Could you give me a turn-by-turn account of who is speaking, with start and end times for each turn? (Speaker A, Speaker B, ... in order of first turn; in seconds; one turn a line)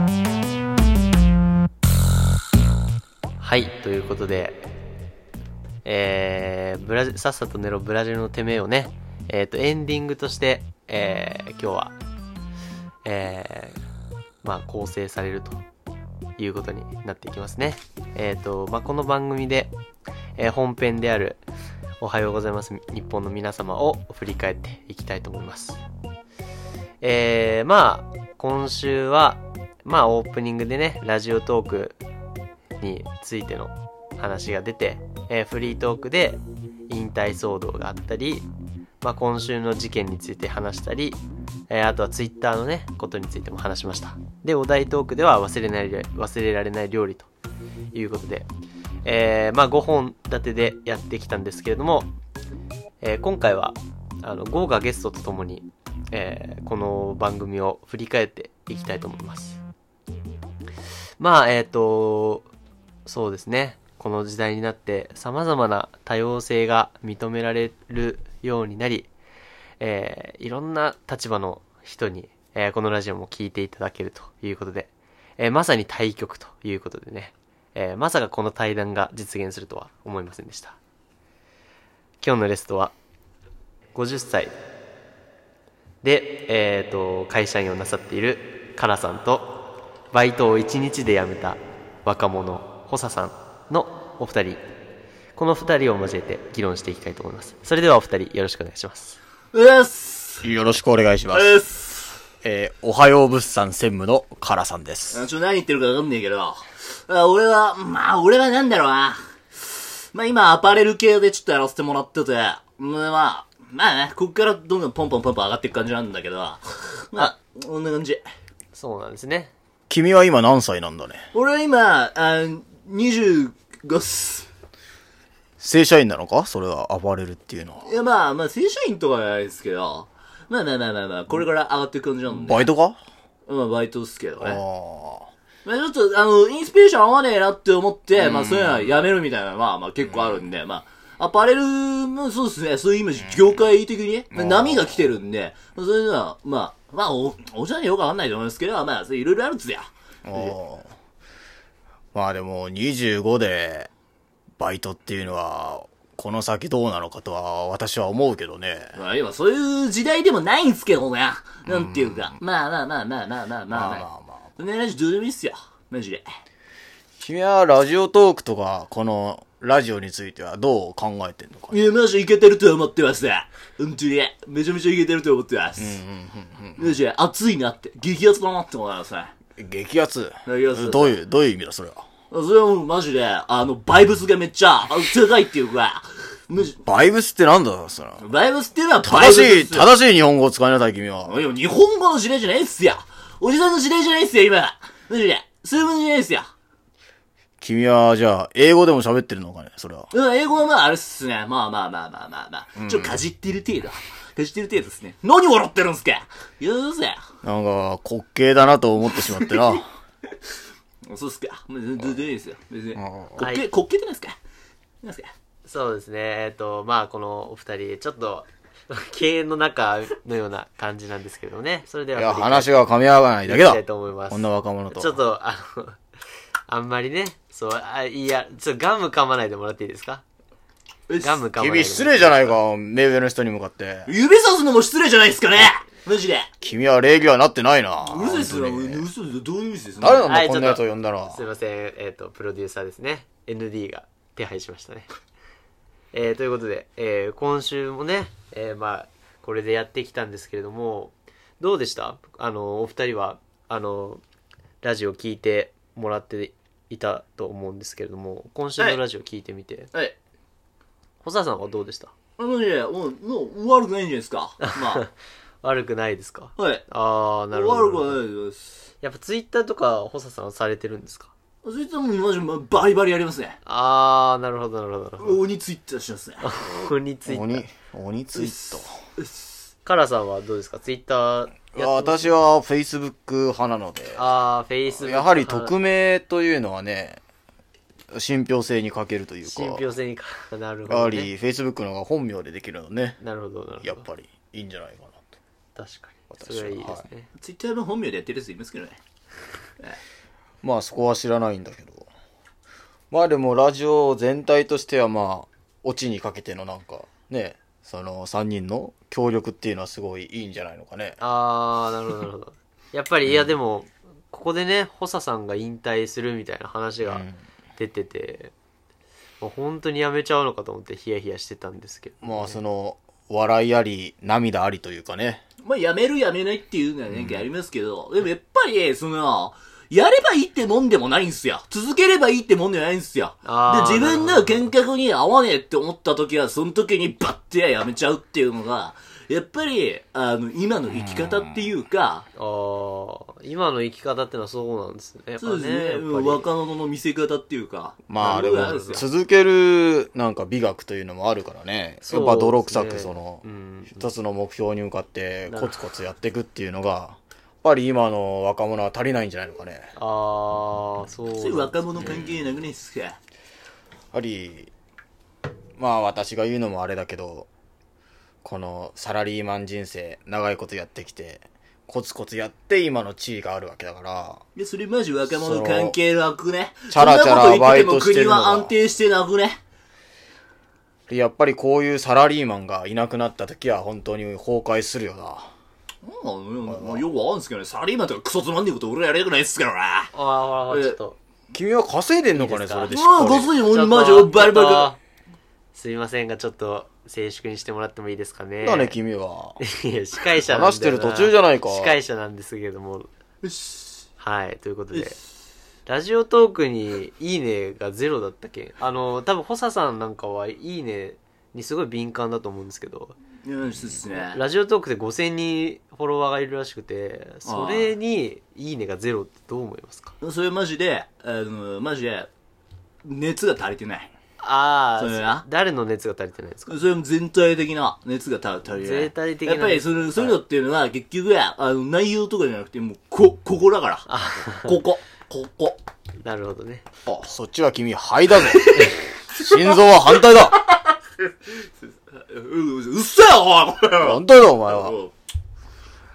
Speaker A: 3.4-4.6
Speaker A: 5.8-11.9
Speaker A: 13.0-13.8
Speaker A: 14.4-15.6
Speaker A: 16.4-19.7
Speaker A: 20.4-21.4
Speaker A: 22.0-25.8
Speaker A: 27.0-32.0
Speaker A: 32.8-38.5
Speaker A: 39.0-47.3
Speaker A: 47.9-48.5
Speaker A: 49.0-52.1
Speaker A: 53.0-59.6
Speaker A: 61.2-62.5
Speaker A: 63.0-69.1
Speaker A: 69.8-80.8
Speaker A: 82.2-82.9
Speaker A: 83.9-84.5
Speaker A: 86.0-89.5
Speaker A: 90.1-94.6
Speaker A: 95.3-99.2
Speaker B: 99.5-100.5
Speaker C: 100.4-101.6
Speaker B: 101.3-102.2
Speaker C: 102.4-105.2
Speaker B: 105.1-118.2
Speaker A: 118.7-119.5
Speaker C: 119.9-121.2
Speaker B: 121.3-124.5
Speaker C: 125.6-127.9
Speaker B: 127.8-132.7
Speaker C: 132.3-133.0
Speaker B: 133.5-134.6
Speaker C: 134.4-135.3
Speaker B: 135.6-150.6
Speaker C: 138.2-138.9
Speaker C: 144.3-145.0
Speaker C: 150.2-150.9
Speaker C: 152.1-153.9
Speaker C: 154.6-158.9
Speaker B: 158.9-164.1
Speaker C: 161.7-162.4
Speaker C: 163.7-164.4
Speaker B: 164.6-166.2
Speaker C: 167.2-171.8
Speaker B: 171.7-176.0
Speaker C: 175.8-176.9
Speaker B: 176.8-179.3
Speaker C: 179.6-182.1
Speaker B: 180.4-181.2
Speaker B: 182.3-186.8
Speaker C: 186.8-188.2
Speaker B: 188.2-189.9
Speaker C: 189.0-191.4
Speaker B: 191.3-196.5
Speaker C: 197.6-200.1
Speaker B: 200.1-207.2
Speaker C: 202.8-203.2
Speaker C: 207.4-209.9
Speaker B: 209.2-209.8
Speaker B: 211.1-214.4
Speaker C: 212.9-213.5
Speaker A: 213.4-213.7
Speaker B: 215.0-215.3
Speaker A: 215.6-222.8
Speaker C: 222.1-225.2
Speaker A: 223.4-226.0
Speaker A: 226.7-230.2
Speaker B: 231.1-231.4
Speaker A: 231.2-232.5
Speaker C: 231.6-234.1
Speaker B: 234.1-236.5
Speaker C: 236.6-239.1
Speaker B: 238.0-240.2
Speaker C: 240.0-241.4
Speaker A: 240.0-245.1
Speaker A: 246.1-254.2
Speaker A: 254.8-259.9
Speaker A: 261.2-262.1
Speaker B: 262.4-265.0
Speaker A: 264.6-265.1
Speaker A: 265.6-268.2
Speaker B: 266.6-266.8
Speaker B: 267.5-268.6
Speaker A: 269.0-271.3
Speaker B: 271.6-273.6
Speaker A: 273.6-275.4
Speaker B: 275.2-276.6
Speaker A: 276.4-277.6
Speaker C: 277.2-278.9
Speaker B: 278.3-279.4
Speaker A: 279.8-282.3
Speaker C: 281.7-284.3
Speaker A: 284.1-285.7
Speaker C: 284.9-287.2
Speaker C: 288.1-289.9
Speaker A: 289.4-291.3
Speaker C: 290.9-293.2
Speaker A: 293.2-294.0
Speaker C: 293.8-295.4
Speaker A: 295.8-297.3
Speaker C: 296.3-297.1
Speaker B: 297.4-299.0
Speaker C: 300.6-302.1
Speaker C: 303.1-311.2
Speaker A: 311.2-318.5
Speaker C: 313.2-313.5
Speaker C: 317.0-317.4
Speaker A: 319.4-322.6
Speaker C: 322.2-325.4
Speaker B: 325.6-342.3
Speaker C: 327.1-327.4
Speaker A: 333.4-334.7
Speaker C: 340.9-341.5
Speaker A: 342.4-346.5
Speaker B: 345.4-349.0
Speaker C: 348.1-359.9
Speaker A: 348.3-349.0
Speaker A: 352.0-354.1
Speaker A: 355.5-355.8
Speaker A: 359.9-362.1
Speaker B: 361.4-363.2
Speaker C: 364.1-364.7
Speaker C: 365.8-367.5
Speaker C: 368.4-374.4
Speaker B: 374.6-379.6
Speaker C: 375.3-375.9
Speaker C: 376.9-378.7
Speaker C: 381.1-385.5
Speaker B: 386.0-390.1
Speaker C: 386.7-387.0
Speaker A: 390.1-391.2
Speaker B: 390.7-391.0
Speaker C: 391.5-393.5
Speaker A: 392.3-395.0
Speaker B: 392.9-394.9
Speaker A: 395.7-398.9
Speaker C: 398.6-399.6
Speaker A: 399.6-403.1
Speaker C: 400.4-401.9
Speaker B: 403.4-404.1
Speaker A: 404.2-405.1
Speaker A: 405.9-413.1
Speaker B: 413.4-414.4
Speaker A: 414.1-420.1
Speaker B: 417.4-417.9
Speaker B: 420.2-422.3
Speaker B: 423.0-424.1
Speaker A: 424.4-426.8
Speaker B: 425.0-425.4
Speaker B: 426.7-434.1
Speaker A: 428.7-430.4
Speaker A: 434.1-434.8
Speaker B: 434.6-435.8
Speaker A: 436.2-436.8
Speaker C: 437.1-440.6
Speaker B: 438.5-445.1
Speaker C: 444.0-444.9